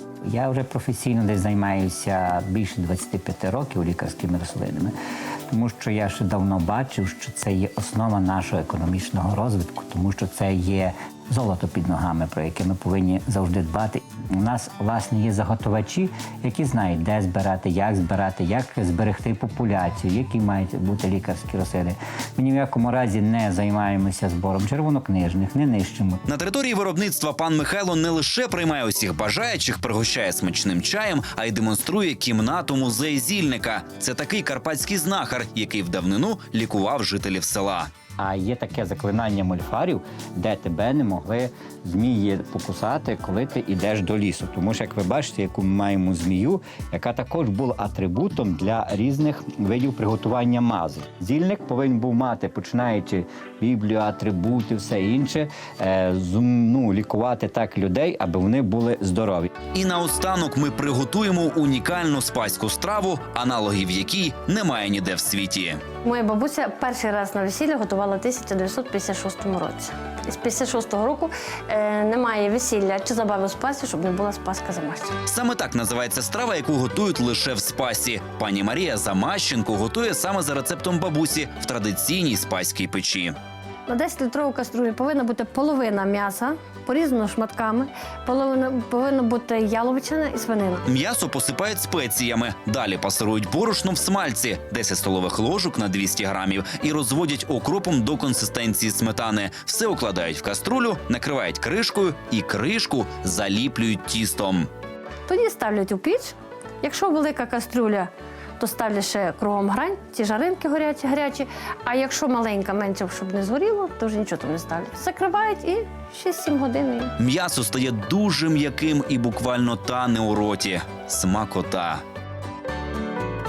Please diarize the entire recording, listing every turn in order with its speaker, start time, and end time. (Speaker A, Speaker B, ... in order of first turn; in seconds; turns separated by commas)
Speaker A: 0.3-4.9, Speaker A: 5.5-26.2, Speaker B: 26.2-37.9, Speaker A: 38.2-59.5, Speaker B: 59.7-65.8, Speaker C: 66.0-75.2, Speaker B: 75.2-83.3, Speaker C: 83.9-90.8, Speaker B: 90.8-104.7, Speaker C: 105.2-117.1, Speaker B: 117.2-122.0